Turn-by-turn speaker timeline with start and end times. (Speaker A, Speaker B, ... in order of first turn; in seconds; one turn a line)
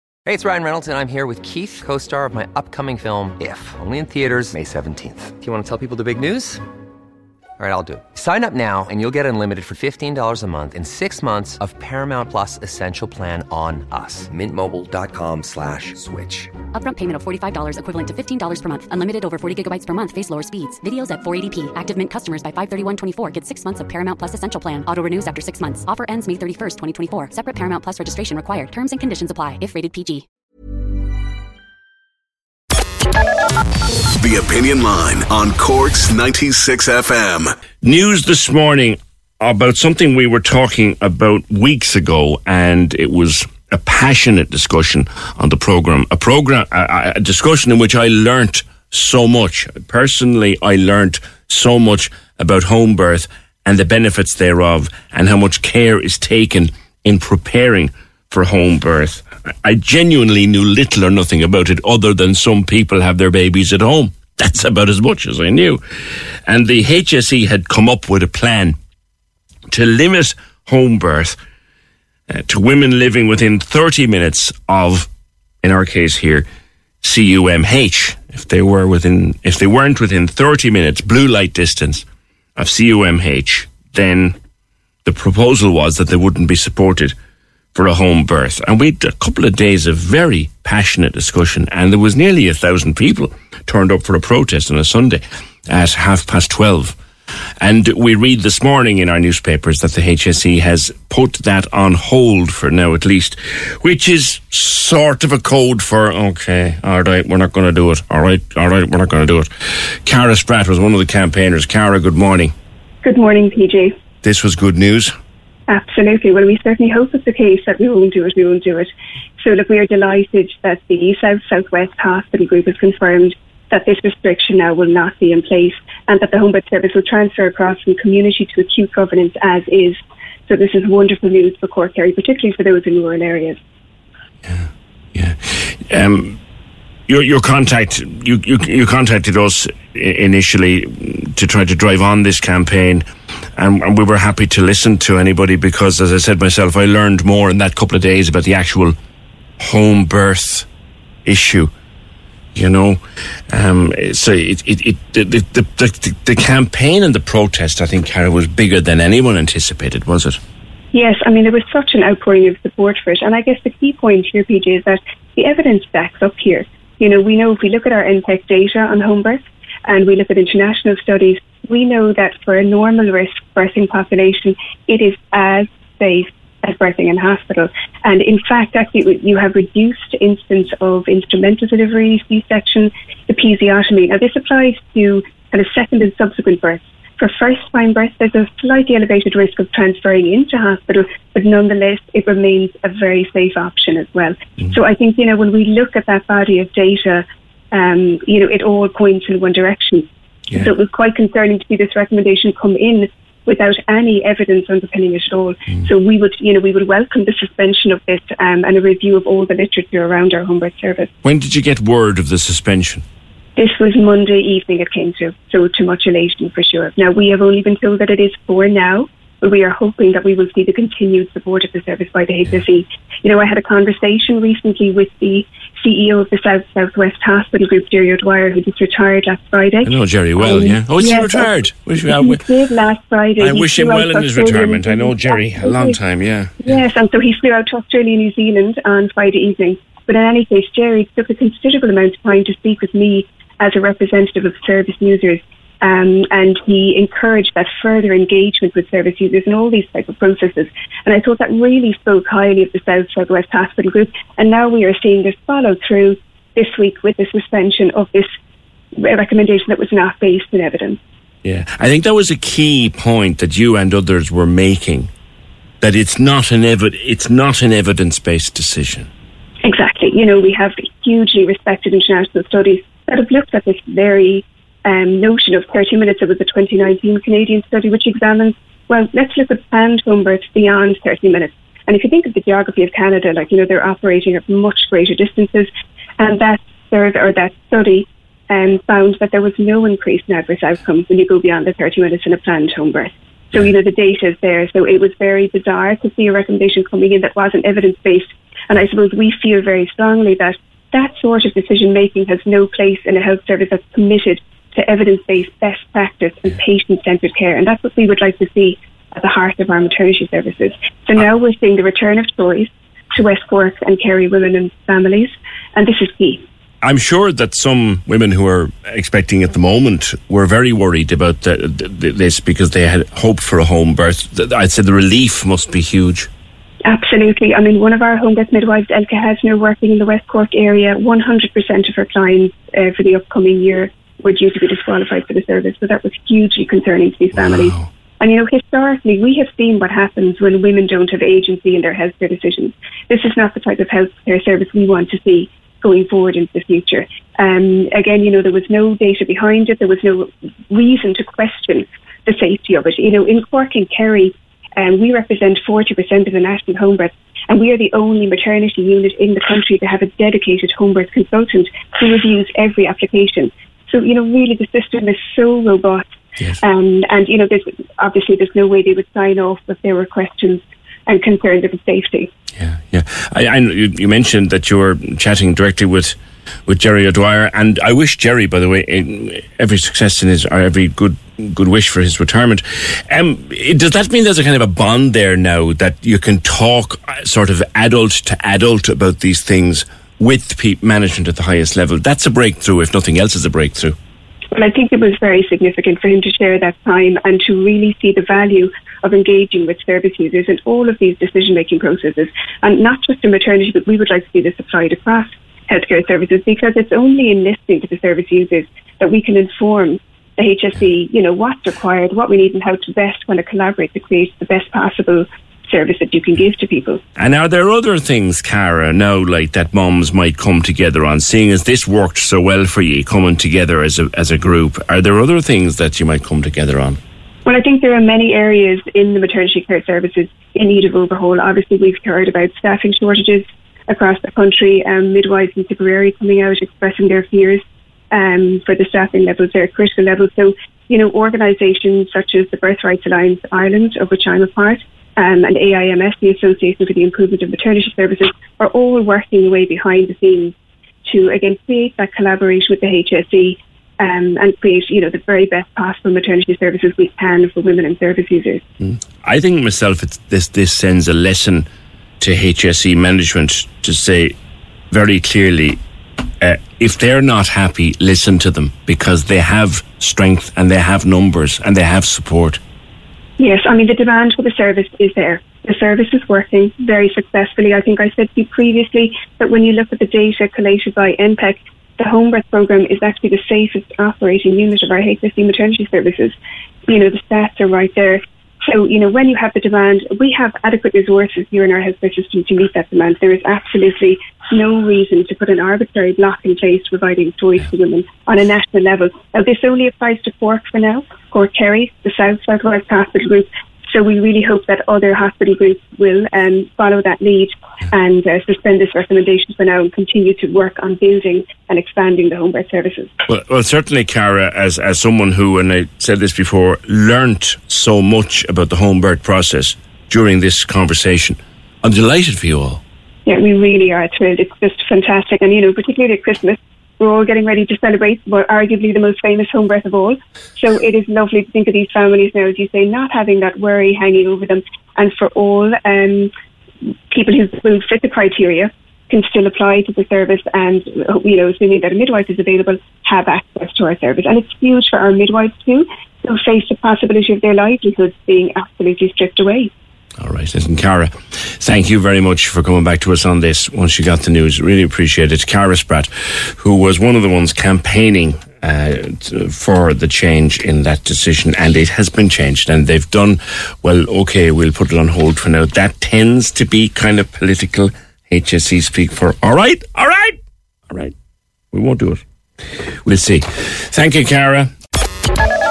Speaker A: 0.2-6.6
Speaker A: 7.6-16.7
Speaker B: 16.7-30.2
Speaker C: 34.2-37.5
Speaker D: 37.8-65.8
Speaker D: 66.5-68.8
Speaker D: 69.7-71.4
Speaker D: 72.3-75.1
Speaker D: 75.6-76.5
Speaker D: 77.0-82.0
Speaker D: 82.5-84.3
Speaker D: 85.0-87.1
Speaker D: 87.7-97.0
Speaker D: 97.6-112.5
Speaker E: 113.0-113.9
Speaker D: 114.2-115.1
Speaker E: 115.7-133.6
Speaker D: 134.4-136.4
Speaker D: 137.1-143.1
Speaker D: 143.6-148.9
Speaker D: 149.6-150.7
Speaker D: 151.2-151.7
Speaker D: 152.5-160.4
Speaker E: 160.9-211.1
Speaker D: 211.2-213.0
Speaker E: 213.6-231.5
Speaker D: 229.8-232.4
Speaker E: 232.0-236.0
Speaker D: 233.4-236.6
Speaker E: 236.6-258.3
Speaker E: 258.9-261.0
Speaker D: 261.4-265.1
Speaker D: 265.8-269.1
Speaker E: 269.6-316.4
Speaker D: 316.8-326.3
Speaker E: 326.8-366.1
Speaker D: 337.4-337.9
Speaker E: 366.6-372.3
Speaker D: 372.6-393.9
Speaker E: 394.5-417.0
Speaker D: 417.2-427.0
Speaker E: 427.4-450.5
Speaker E: 451.0-458.6
Speaker D: 458.8-461.6
Speaker D: 462.2-464.3
Speaker D: 464.9-465.8
Speaker D: 466.4-472.6
Speaker E: 473.4-486.4
Speaker E: 486.9-513.1
Speaker D: 513.3-522.8
Speaker E: 523.2-536.3
Speaker E: 537.1-549.7
Speaker D: 550.2-570.4
Speaker D: 570.9-571.1
Speaker D: 571.7-572.2
Speaker D: 573.0-574.7